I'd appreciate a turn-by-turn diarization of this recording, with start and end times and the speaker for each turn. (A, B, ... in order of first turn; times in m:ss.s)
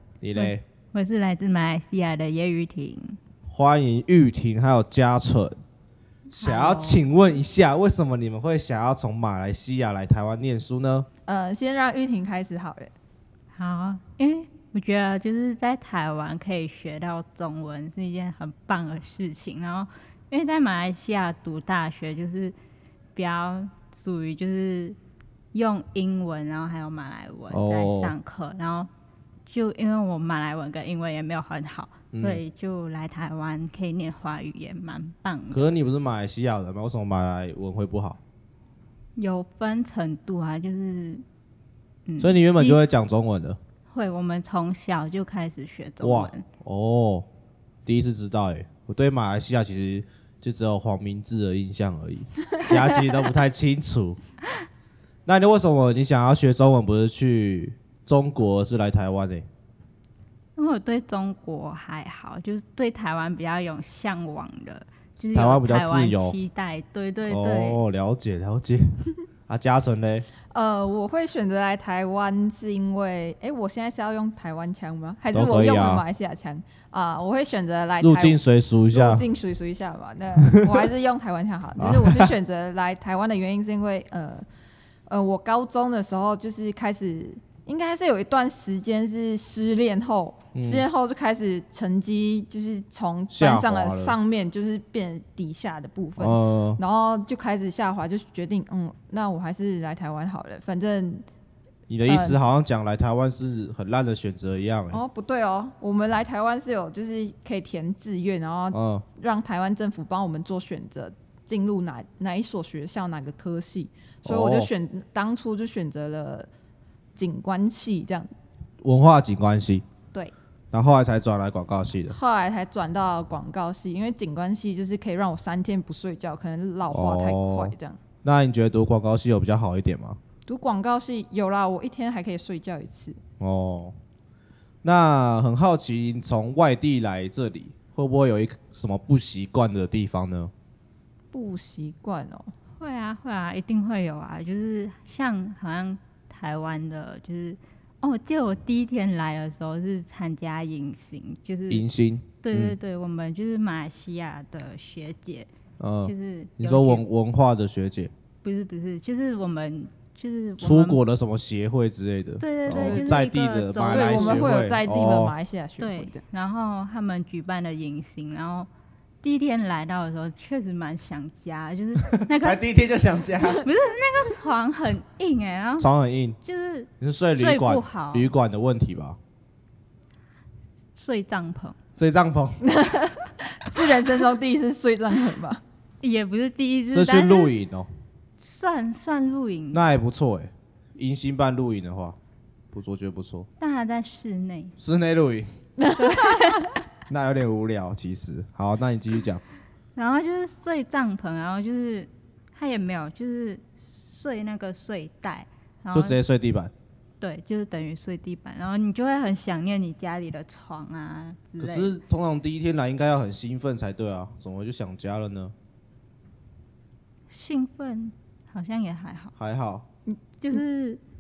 0:00.2-0:00.6 A
0:00.4-0:03.2 B
0:03.5-0:05.6 A
0:06.3-0:11.1 A
0:06.4-0:07.0 B
0:11.3-0:12.9 C
0:13.5-0:22.6 B
0:23.2-0:25.0 B
0:25.5-0:28.9 B
0:27.5-0:28.2 A
0:29.5-0:35.8 B
0:32.1-0:32.4 A
0:35.5-0:38.2 A
0:39.2-0:41.2 B
0:42.1-0:42.9 B
0:42.2-0:43.6 A
0:43.9-0:46.4 B
0:46.0-0:47.3 A
0:47.8-0:54.2 A
0:55.3-0:59.5 A
1:00.6-1:07.8 B
1:05.2-1:06.4 A
1:07.3-1:10.3 A
1:10.5-1:18.4 C
1:15.3-1:16.0 A
1:18.0-1:19.2 A
1:18.9-1:24.4 C
1:20.4-1:20.9 A
1:21.8-1:22.3 A
1:25.1-1:41.3 C
1:30.6-1:30.9 A
1:33.3-1:34.2 A
1:36.2-1:36.8 A
1:41.9-1:45.0 A
1:42.1-1:42.4 C
1:44.9-1:56.5 C
1:48.7-1:49.0 A
1:54.2-1:54.7 A
1:57.2-1:58.3 C
1:58.8-1:59.8 A
2:00.7-2:02.2 A
2:02.1-2:08.0 C
2:06.9-2:10.2 A
2:10.5-2:13.2 C
2:13.4-2:14.0 A
2:14.8-2:20.5 A
2:21.3-2:22.5 C
2:22.8-2:31.9 B
2:31.7-2:32.8 A
2:32.4-2:35.5 B
2:35.8-2:38.1 A
2:36.0-2:37.0 B
2:38.4-2:41.0 B
2:40.6-2:45.3 A
2:42.4-2:44.5 B
2:42.7-2:43.2 C
2:43.9-2:46.2 C
2:45.8-2:48.7 B
2:49.2-2:52.6 B
2:52.1-2:53.7 A
2:53.4-2:55.9 B
2:55.8-2:56.4 A
2:56.4-2:58.3 B
2:57.0-2:59.2 A
3:01.0-3:01.8 B
3:02.0-3:02.6 A
3:02.6-3:05.6 C
3:06.0-3:07.5 B
3:06.9-3:07.9 A
3:08.4-3:09.8 B
3:09.7-3:12.2 A
3:12.7-3:13.5 A
3:13.6-3:14.8 B
3:14.8-3:15.5 A
3:15.8-3:16.6 C
3:16.0-3:16.8 B
3:17.1-3:19.4 A
3:20.0-3:26.2 B
3:25.9-3:26.7 A
3:27.2-3:31.9 B
3:31.6-3:35.5 A
3:37.3-3:39.3 B
3:39.4-3:39.8 A
3:40.4-3:41.0 B